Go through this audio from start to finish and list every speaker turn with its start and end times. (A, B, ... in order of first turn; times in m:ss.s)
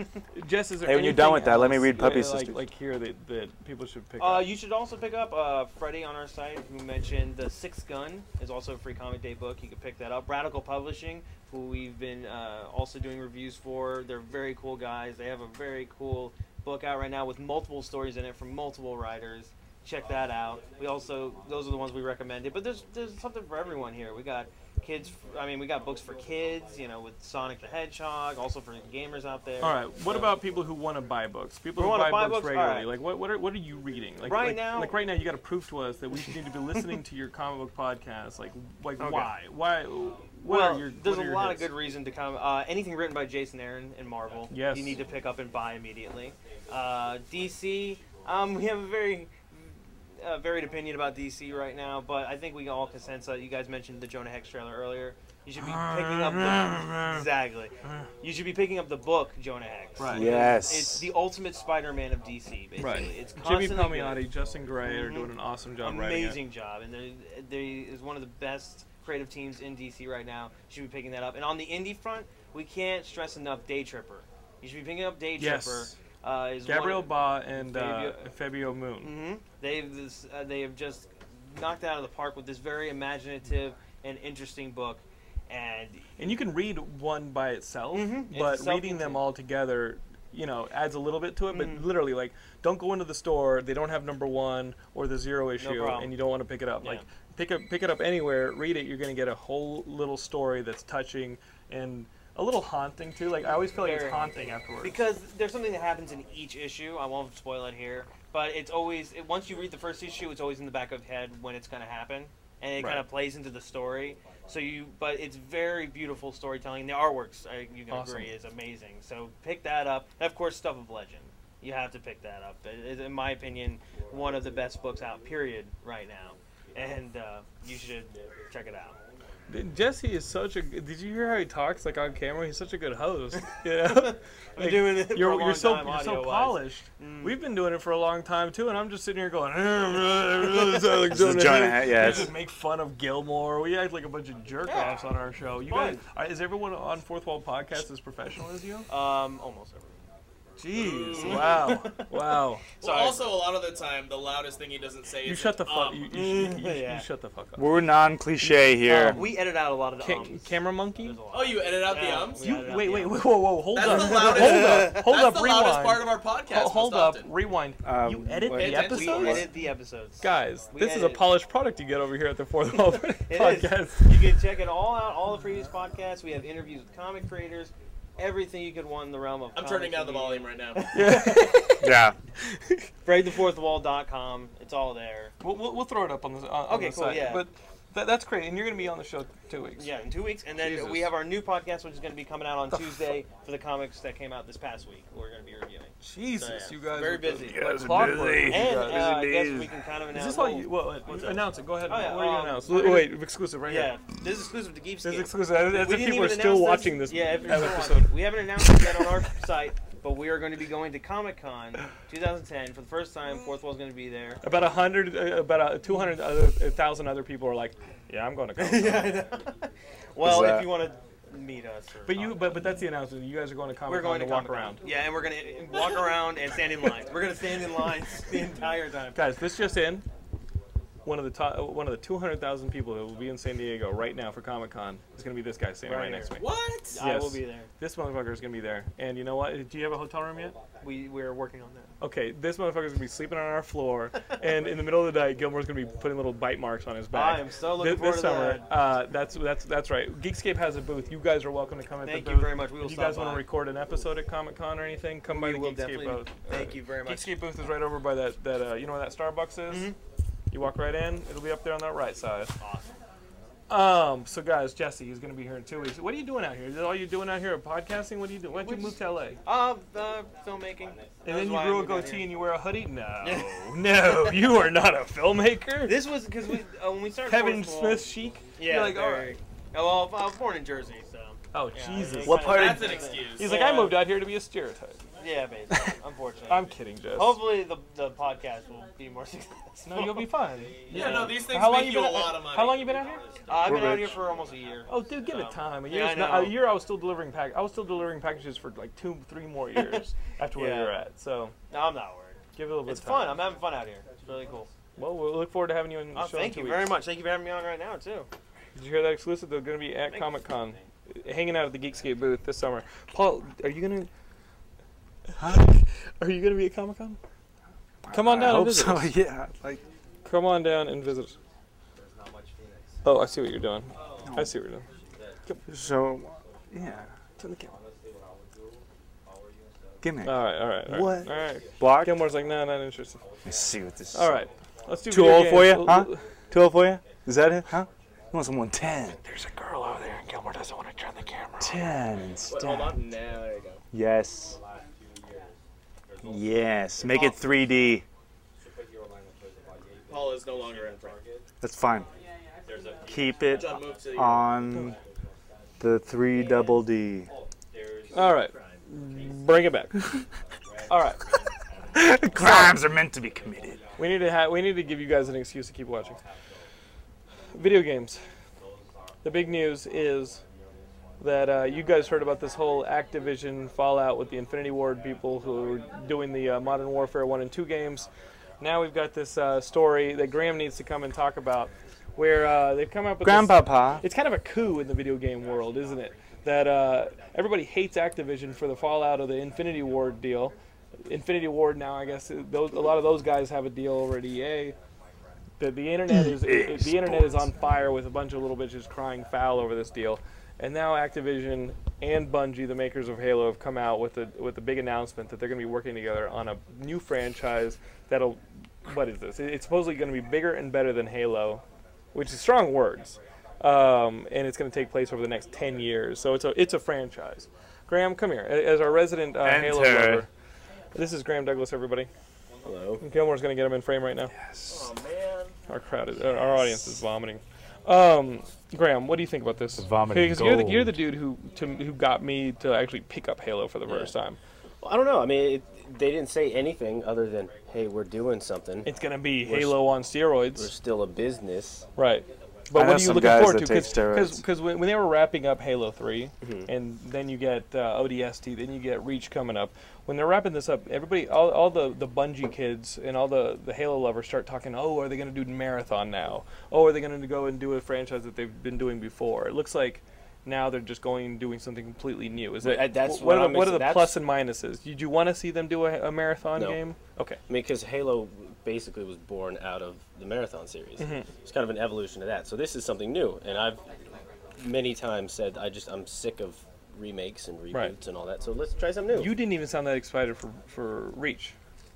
0:00.3-0:04.5 A
0:00.8-0:02.7 B
0:04.2-0:30.4 C
0:29.6-0:41.7 A
0:31.8-0:32.9 C
0:34.2-0:35.0 C
0:36.2-0:36.9 C
0:39.0-0:39.5 C
0:40.4-1:04.2 C
0:44.5-0:45.0 A
0:55.6-0:57.3 A
0:57.8-0:58.1 A
1:00.0-1:00.4 A
1:00.1-1:01.1 B
1:02.8-1:06.4 A
1:04.8-1:18.3 C
1:15.4-1:15.9 A
1:16.6-1:19.1 A
1:19.0-1:26.2 C
1:26.2-1:45.0 A
1:27.9-1:29.2 C
1:31.5-1:31.9 C
1:35.6-1:36.2 C
1:43.7-2:09.0 C
1:52.8-1:53.1 A
1:57.9-1:58.3 A
2:09.5-2:28.9 A
2:13.7-2:17.4 C
2:20.9-2:22.4 B
2:24.6-2:25.1 C
2:25.6-2:26.0 C
2:28.9-2:30.0 C
2:30.6-2:32.6 A
2:30.7-2:31.8 D
2:31.1-2:33.4 C
2:32.8-2:36.1 D
2:35.2-2:37.8 A
2:35.9-2:37.1 C
2:37.6-2:39.3 B
2:38.4-2:39.4 A
2:39.1-2:43.3 C
2:40.0-2:41.2 A
2:41.3-2:42.6 D
2:42.4-2:49.6 A
2:43.7-2:47.3 D
2:43.8-2:45.1 C
2:47.8-2:49.5 B
2:48.5-2:49.5 D
2:48.6-2:51.3 C
2:50.2-2:54.2 A
2:53.3-3:01.7 C
2:59.5-3:01.1 D
3:00.9-3:01.9 A
3:01.8-3:02.2 B
3:02.6-3:02.9 A
3:03.0-3:05.4 C
3:05.4-3:09.9 A
3:06.7-3:07.5 C
3:09.8-3:17.7 C
3:10.6-3:11.1 A
3:12.7-3:13.0 A
3:16.0-3:19.2 A
3:17.4-3:19.7 B
3:18.4-3:34.4 C
3:20.1-3:23.9 A
3:25.0-3:29.0 A
3:34.4-3:39.2 A
3:38.6-3:42.7 C
3:40.2-3:40.7 B
3:42.1-3:44.8 A
3:43.9-3:49.2 C
3:49.1-3:50.1 A
3:51.0-4:00.6 A
3:55.8-3:57.7 C
3:56.4-3:57.0 D
4:00.8-4:01.9 C
4:02.0-4:19.9 A
4:07.1-4:08.7 C
4:12.0-4:13.5 C
4:15.3-4:17.4 C
4:19.7-4:20.0 C
4:20.5-4:22.6 A
4:22.6-4:23.0 C
4:23.7-4:29.4 A
4:28.5-4:32.4 C
4:30.6-4:31.2 E
4:31.2-4:36.2 A
4:33.2-4:34.6 C
4:35.8-4:44.1 C
4:37.2-4:39.4 A
4:41.5-4:42.7 A
4:42.2-4:43.0 B
4:42.4-4:43.6 D
4:43.2-4:45.0 A
4:45.2-4:51.6 C
4:46.5-4:47.4 A
4:49.9-4:53.3 A
4:50.6-4:51.3 E
4:50.9-4:52.9 D
4:52.6-4:54.9 E
4:53.5-4:56.7 C
4:53.7-4:54.2 B
4:54.9-5:01.6 A
5:00.5-5:01.0 C
5:01.7-5:04.7 C
5:02.5-5:03.5 A
5:05.0-5:07.0 A
5:06.1-5:08.3 C
5:08.8-5:14.1 A
5:10.1-5:10.4 C
5:15.3-5:17.2 A
5:15.4-5:15.7 B
5:18.0-5:19.8 B
5:18.1-5:19.2 A
5:20.2-5:21.4 A
5:22.0-5:23.1 E
5:23.0-5:24.9 A
5:24.0-5:25.4 E
5:24.2-5:24.5 B
5:25.7-5:27.1 B
5:27.4-5:27.7 A
5:29.4-5:30.0 E
5:30.0-5:32.3 B
5:30.2-5:33.2 A
5:33.4-5:34.4 B
5:34.1-5:36.2 A
5:35.1-5:39.2 B
5:39.2-5:41.8 A
5:41.6-5:43.0 B
5:42.5-5:43.8 D
5:43.9-5:44.6 B
5:45.1-5:45.6 E
5:46.1-5:47.9 E
5:46.2-5:48.0 B
5:48.6-5:51.4 E
5:50.1-5:51.2 D
5:51.6-5:52.1 B
5:52.6-5:55.0 E
5:53.0-5:55.0 B
5:53.5-5:54.5 D
5:55.8-5:57.3 B
5:56.3-5:59.5 E
5:58.1-5:59.9 A
6:00.7-6:04.0 E
6:00.9-6:01.2 A
6:01.9-6:03.8 B
6:02.4-6:02.8 A
6:04.0-6:06.2 A
6:07.5-6:08.2 A
6:09.2-6:10.4 A
6:11.2-6:18.1 A
6:18.6-6:30.5 A
6:23.2-6:24.0 B
6:25.4-6:26.7 E
6:31.0-6:34.8 A
6:35.6-7:00.3 A
6:36.1-6:37.5 B
6:59.4-7:00.3 B
7:00.9-7:02.1 A
7:02.6-7:03.0 F
7:03.0-7:04.3 A
7:04.3-7:04.9 B
7:05.7-7:14.4 A
7:09.8-7:11.0 B
7:13.9-7:14.1 F
7:14.8-7:18.9 F
7:18.8-7:20.7 A
7:19.4-7:19.8 F
7:20.6-7:21.9 F
7:22.0-7:47.4 A
7:22.7-7:24.4 B
7:26.4-7:26.7 F
7:42.6-7:44.2 F
7:46.5-7:46.8 F
7:47.5-7:53.8 F
7:51.0-7:51.3 A
7:54.6-7:59.4 F
7:57.7-7:58.0 A
7:59.1-8:01.6 A